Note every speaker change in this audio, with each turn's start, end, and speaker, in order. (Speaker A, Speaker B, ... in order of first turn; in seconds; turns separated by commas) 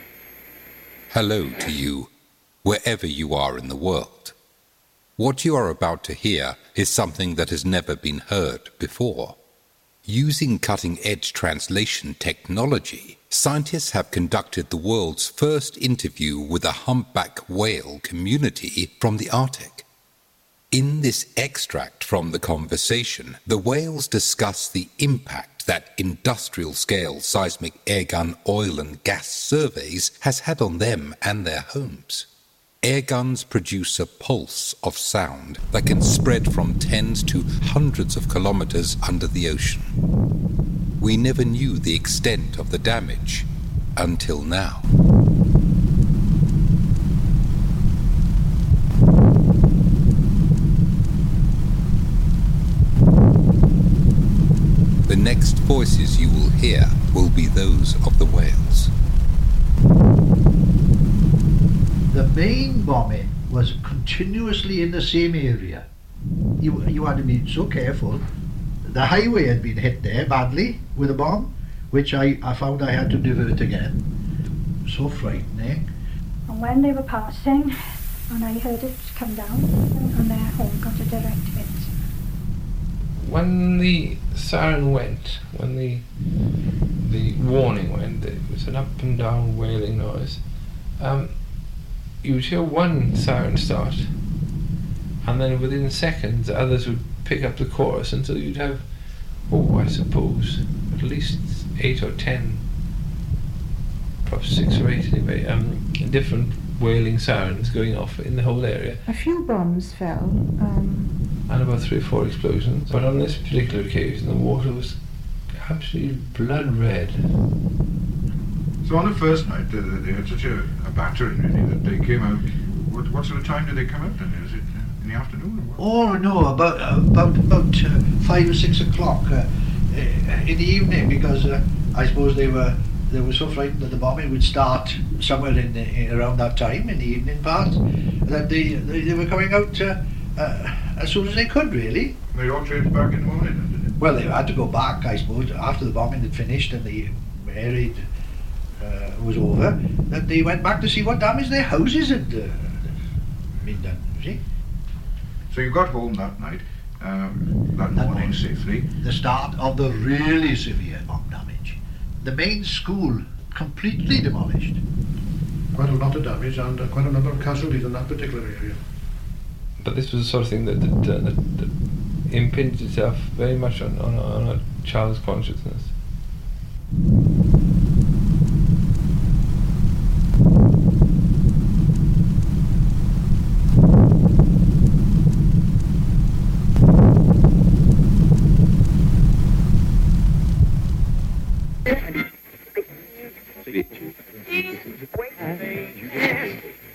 Speaker A: 1.1-2.1, Speaker A: 2.6-4.3, Speaker A: 5.2-9.4, Speaker A: 10.0-19.8, Speaker A: 20.7-32.2, Speaker A: 32.8-39.9, Speaker A: 41.0-44.9, Speaker A: 55.1-58.9, Speaker B: 62.1-65.9, Speaker B: 66.6-68.2, Speaker B: 68.9-74.0, Speaker B: 74.9-75.9, Speaker C: 76.5-77.8, Speaker C: 78.3-81.9, Speaker D: 83.2-94.3, Speaker D: 95.2-102.7, Speaker D: 104.2-109.1, Speaker E: 109.0-111.2, Speaker D: 111.5-117.4, Speaker F: 118.8-125.8, Speaker B: 125.8-142.2, Speaker F: 142.3-143.9, Speaker B: 144.0-148.0, Speaker B: 148.8-152.9, Speaker B: 153.6-154.4, Speaker F: 155.5-158.9, Speaker B: 157.9-158.4, Speaker B: 159.0-164.8, Speaker G: 165.8-168.8, Speaker D: 169.8-175.9